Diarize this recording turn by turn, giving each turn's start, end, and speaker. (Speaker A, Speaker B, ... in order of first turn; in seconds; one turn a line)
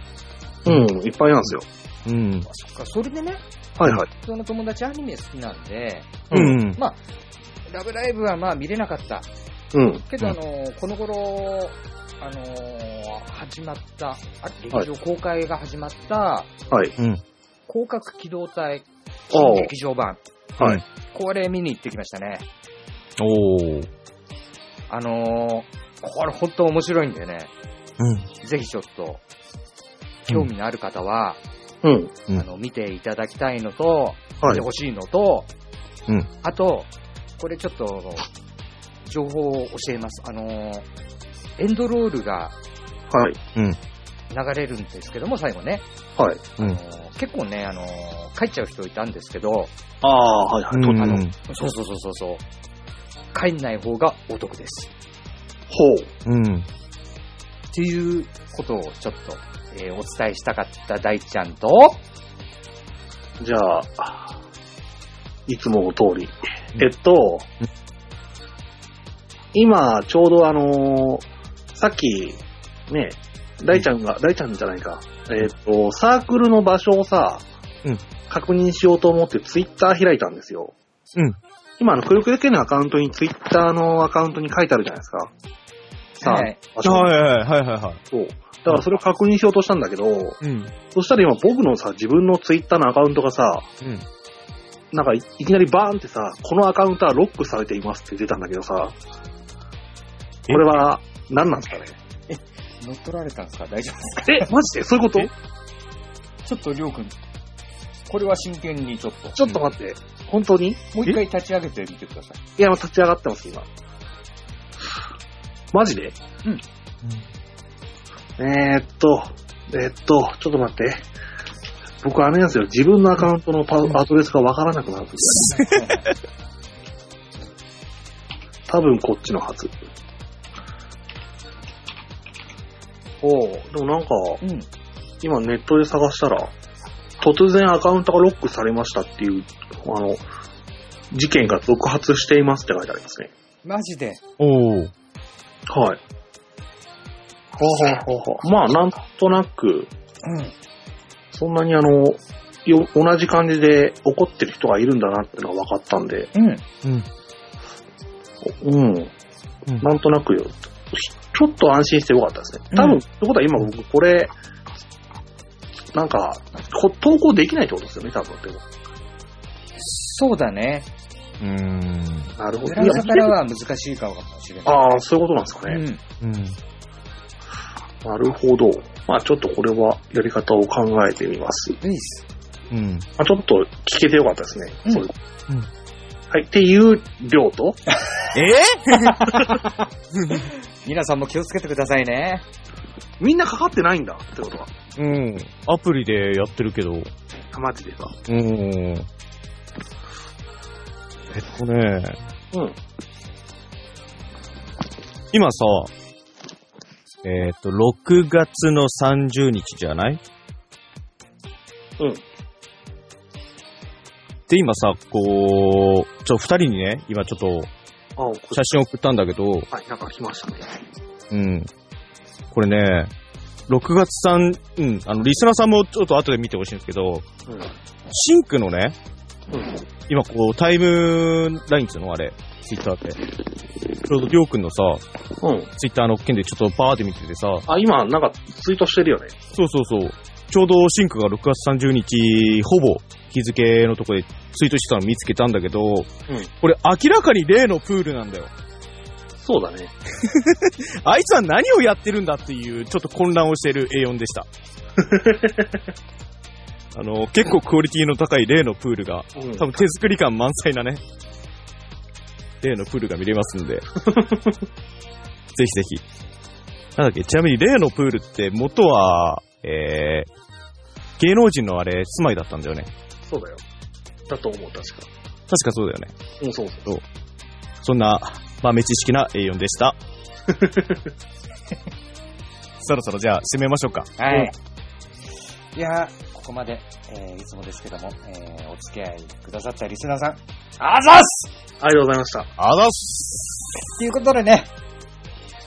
Speaker A: 0.7-1.7
Speaker B: 2.1-2.5
Speaker C: 2.5-3.4
Speaker A: 3.8-4.1
Speaker C: 4.1-7.0
Speaker A: 6.3-6.6
Speaker B: 6.3-6.8
Speaker C: 7.7-9.3
Speaker A: 9.7-10.0
Speaker C: 10.1-16.5
Speaker A: 16.7-16.9
Speaker C: 17.7-20.2
Speaker A: 19.3-19.7
Speaker C: 21.1-22.5
Speaker B: 23.2-23.9
Speaker C: 24.9-27.5
Speaker B: 28.0-28.3
Speaker C: 28.4-29.2
Speaker C: 30.3-31.4
Speaker A: 31.8-32.2
Speaker C: 32.3-35.5
Speaker C: 36.4-38.3
Speaker C: 39.1-40.9
Speaker C: 41.6-42.5
Speaker A: 43.1-43.4
Speaker B: 43.5-43.8
Speaker C: 44.3-45.8
Speaker A: 46.2-46.5
Speaker C: 46.6-49.7
Speaker A: 50.0-51.2
Speaker B: 50.7-51.4
Speaker C: 51.0-52.4
Speaker C: 53.3-54.9
Speaker A: 55.7-56.1
Speaker B: 56.2-56.7
Speaker C: 57.7-62.0
Speaker A: 63.4-64.4
Speaker A: 65.5-67.5
Speaker A: 69.5-77.4
Speaker A: 78.3-80.8
Speaker A: 81.8-85.3
Speaker A: 86.2-87.1
Speaker C: 86.2-86.6
Speaker B: 86.8-88.0
Speaker A: 88.1-90.4
Speaker B: 90.4-90.7
Speaker A: 90.9-93.7
Speaker B: 93.8-94.1
Speaker A: 94.9-99.0
Speaker A: 100.5-102.0
Speaker C: 102.3-104.5
Speaker A: 104.3-105.3
Speaker C: 106.5-107.2
Speaker C: 108.1-109.4
Speaker A: 109.4-110.8
Speaker C: 110.9-112.4
Speaker A: 112.6-113.7
Speaker A: 115.7-116.2
Speaker A: 118.4-121.0
Speaker A: 122.0-125.6
Speaker C: 125.4-126.1
Speaker B: 125.5-125.8
Speaker A: 128.7-129.8
Speaker A: 133.2-134.4
Speaker C: 134.4-134.7
Speaker A: 135.2-136.5
Speaker A: 137.2-140.2
Speaker A: 141.1-143.3
Speaker C: 143.6-144.2
Speaker B: 144.4-144.9
Speaker A: 145.7-146.0
Speaker A: 147.6-149.9
Speaker C: 150.2-150.6
Speaker A: 151.3-156.3
Speaker C: 156.3-156.6
Speaker A: 158.4-159.1
Speaker A: 159.8-164.3
Speaker C: 162.7-163.0
Speaker A: 165.9-168.6
Speaker C: 169.8-170.9
Speaker B: 171.4-172.3
Speaker A: 172.4-173.3
Speaker C: 172.7-175.0
Speaker A: 174.7-175.8
Speaker C: 175.7-176.0
Speaker B: 176.2-176.6
Speaker A: 178.0-181.8
Speaker C: 181.8-182.2
Speaker B: 182.7-183.1
Speaker A: 183.2-185.1
Speaker A: 186.3-187.8
Speaker B: 188.3-189.3
Speaker C: 188.9-192.4
Speaker B: 190.1-190.5
Speaker A: 193.2-194.7
Speaker B: 195.0-197.1
Speaker A: 197.5-198.2
Speaker B: 198.3-199.1
Speaker B: 201.3-202.2
Speaker A: 202.5-202.8
Speaker B: 205.3-205.9
Speaker B: 207.2-210.2
Speaker B: 214.5-217.7
Speaker A: 218.2-218.6
Speaker B: 218.5-219.7
Speaker A: 219.7-220.7
Speaker B: 221.3-221.7
Speaker B: 222.5-223.1
Speaker B: 223.7-227.3
Speaker B: 228.1-229.0
Speaker A: 229.5-229.8
Speaker B: 230.1-233.2
Speaker B: 234.0-235.0
Speaker A: 235.4-235.7
Speaker B: 235.8-237.7
Speaker A: 237.7-239.4
Speaker B: 239.5-248.5
Speaker A: 249.4-249.9
Speaker B: 250.2-254.5
Speaker A: 255.0-255.8
Speaker B: 256.9-261.0
Speaker A: 259.4-259.9
Speaker B: 262.6-263.9
Speaker A: 264.0-264.6
Speaker B: 265.6-266.0
Speaker B: 267.0-270.3
Speaker B: 271.2-272.9
Speaker A: 273.3-273.6
Speaker A: 274.3-275.1
Speaker B: 275.5-276.1
Speaker A: 276.4-276.9
Speaker B: 277.8-280.0
Speaker A: 280.5-281.1
Speaker B: 282.8-284.1
Speaker C: 284.2-284.5
Speaker C: 285.8-291.5
Speaker A: 291.8-292.5
Speaker B: 292.6-293.7
Speaker C: 294.0-294.7